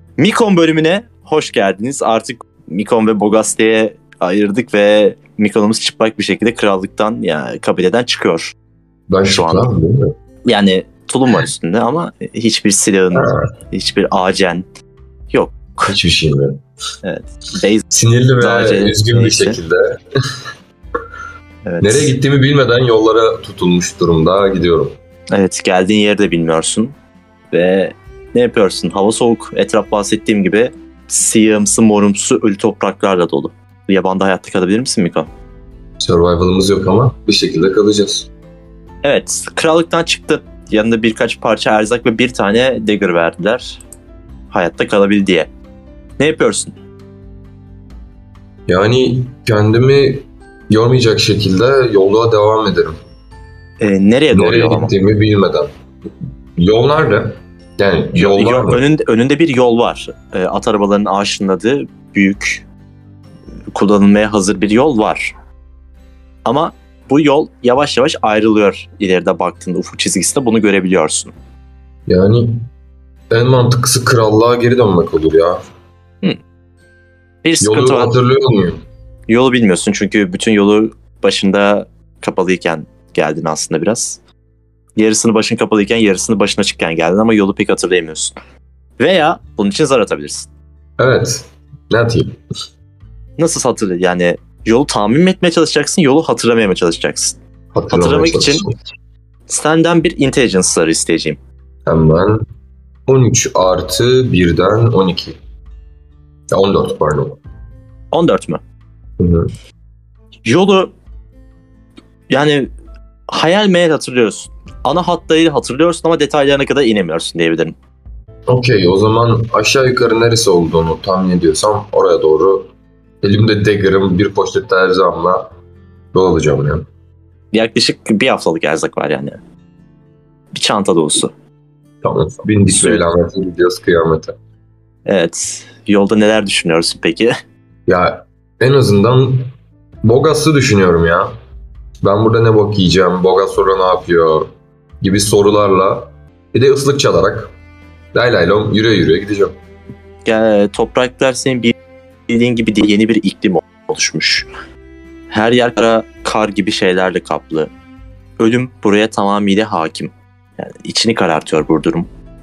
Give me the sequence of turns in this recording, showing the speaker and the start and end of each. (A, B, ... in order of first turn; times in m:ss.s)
0:00.2-0:08.5 A
0:09.1-0:10.1 B
0:09.3-0:09.7 A
0:10.5-0:14.6 A
0:13.1-0:13.4 B
0:15.3-0:16.0 A
0:15.9-0:16.6 B
0:17.0-0:17.9 A
0:17.9-0:20.0 B
0:18.4-0:19.6 A
0:21.6-0:22.1 A
0:21.8-0:25.0 B
0:25.3-0:26.9 A
0:27.5-0:35.3 A
0:36.0-0:38.3 B
0:39.0-0:43.8 A
0:44.5-0:45.5 A
0:46.2-0:46.7 A
0:48.7-0:53.0 B
0:53.8-0:54.9 A
0:54.3-0:55.7 B
0:56.6-0:58.8 B
0:58.2-1:02.6 A
1:03.7-1:05.3 A
1:06.4-1:11.3 A
1:12.1-1:12.7 B
1:13.3-1:15.6 B
1:17.4-1:18.1 A
1:17.6-1:18.8 B
1:19.3-1:24.2 A
1:25.0-1:28.4 A
1:29.0-1:30.5 A
1:31.0-1:32.4 B
1:33.4-1:37.4 A
1:37.7-1:38.7 B
1:37.9-1:38.6 A
1:39.5-1:41.4 A
1:41.9-1:42.4 B
1:43.1-1:45.4 B
1:46.5-1:47.4 B
1:48.1-1:48.6 A
1:49.2-1:49.5 B
1:50.5-1:50.9 A
1:52.3-1:52.7 A
1:53.3-1:57.8 A
1:58.5-2:02.7 B
2:03.2-2:05.5 B
2:06.1-2:06.9 B
2:07.5-2:09.4 A
2:10.5-2:11.3 A
2:12.0-2:14.4 B
2:12.7-2:13.0 A
2:15.1-2:17.3 A
2:17.9-2:21.3 B
2:22.0-2:27.5 B
2:28.1-2:29.6 B
2:30.2-2:31.7 A
2:32.3-2:34.5 A
2:35.3-2:37.7 A
2:38.4-2:42.1 A